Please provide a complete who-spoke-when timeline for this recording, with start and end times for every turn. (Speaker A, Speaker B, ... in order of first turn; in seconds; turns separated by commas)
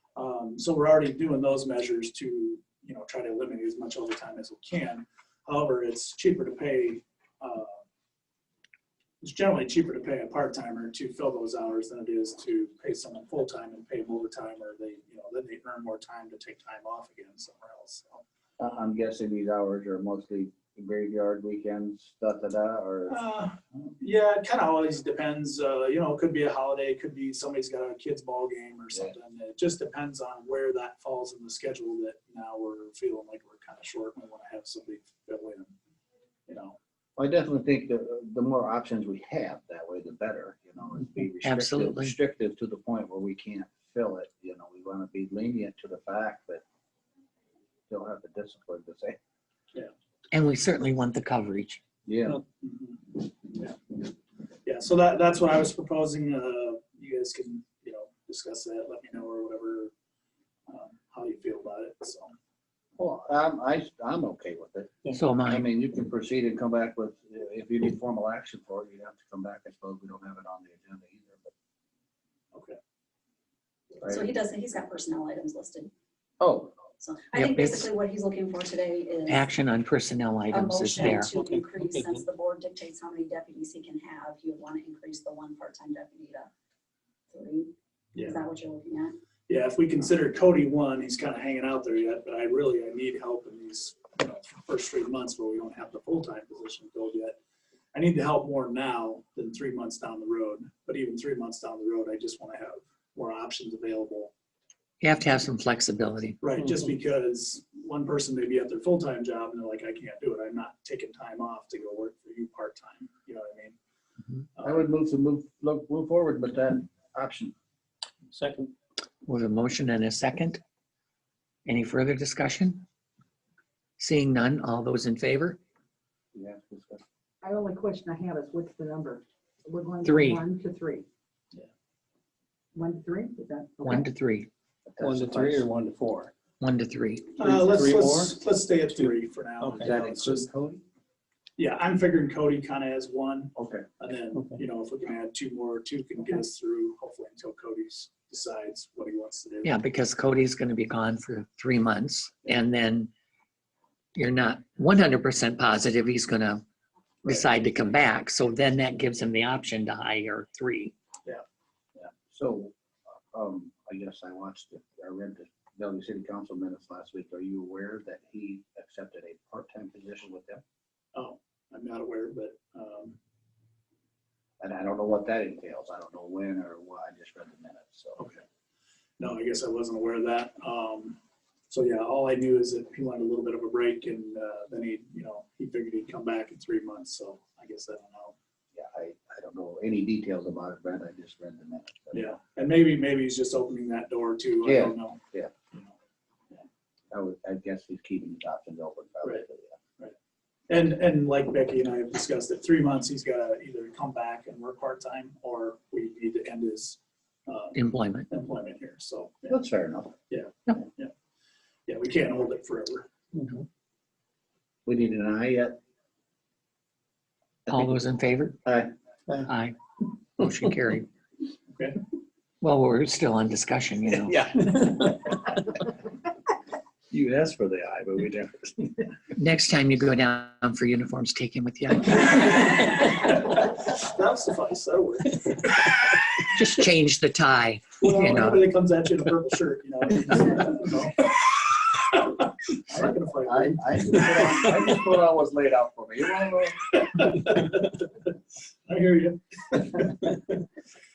Speaker A: 0.2-7.8, Speaker A: 9.2-18.2, Speaker B: 18.6-23.2, Speaker A: 23.1-35.7, Speaker A: 36.5-36.8, Speaker B: 37.2-46.6, Speaker C: 41.4-42.2, Speaker B: 47.9-49.2, Speaker C: 50.3-51.8, Speaker B: 52.1-52.4, Speaker A: 52.6-54.0, Speaker A: 54.7-59.9, Speaker A: 60.7-62.4, Speaker B: 63.0-71.5, Speaker C: 65.1-65.7, Speaker D: 74.0-75.9, Speaker B: 76.4-76.8, Speaker D: 77.0-79.5, Speaker C: 77.3-77.9, Speaker C: 79.3-81.3, Speaker D: 80.5-86.5, Speaker E: 81.0-82.2, Speaker D: 87.3-89.2, Speaker A: 89.5-97.4, Speaker A: 97.9-104.3, Speaker C: 105.0-106.4, Speaker A: 106.4-113.8, Speaker A: 114.6-114.8, Speaker B: 114.6-117.5, Speaker E: 118.3-118.7, Speaker C: 119.3-120.6, Speaker C: 121.7-122.8, Speaker C: 124.0-125.6, Speaker B: 126.3-127.0, Speaker F: 127.4-131.1, Speaker C: 130.1-130.4, Speaker F: 132.8-134.1, Speaker C: 133.8-134.5, Speaker B: 134.9-135.7, Speaker E: 135.0-136.3, Speaker C: 136.6-137.3, Speaker E: 137.4-139.9, Speaker A: 137.4-140.5, Speaker B: 139.8-140.8, Speaker A: 141.6-149.7, Speaker B: 143.6-143.8, Speaker E: 144.3-144.6, Speaker C: 149.6-153.1, Speaker C: 154.2-156.6, Speaker C: 157.2-160.9, Speaker A: 157.3-157.7, Speaker B: 162.0-162.8, Speaker B: 163.3-170.6, Speaker A: 171.2-173.2, Speaker B: 174.6-178.2, Speaker A: 178.2-178.4, Speaker A: 179.2-181.2, Speaker A: 181.7-188.3, Speaker B: 188.7-192.3, Speaker A: 192.1-195.2, Speaker B: 194.7-195.5, Speaker B: 197.1-199.8, Speaker A: 200.7-209.6, Speaker C: 207.8-208.3, Speaker B: 209.5-210.1, Speaker A: 210.3-211.1, Speaker A: 211.9-213.1, Speaker B: 214.9-215.8, Speaker C: 217.7-218.6, Speaker B: 218.7-218.9, Speaker C: 219.5-219.8, Speaker C: 220.4-221.1, Speaker C: 222.6-224.3, Speaker B: 224.3-225.3, Speaker B: 227.1-229.1, Speaker C: 229.3-232.8, Speaker A: 232.8-236.0, Speaker C: 236.5-238.7, Speaker A: 238.0-244.7, Speaker B: 242.9-247.3, Speaker A: 247.1-248.1, Speaker A: 248.9-250.6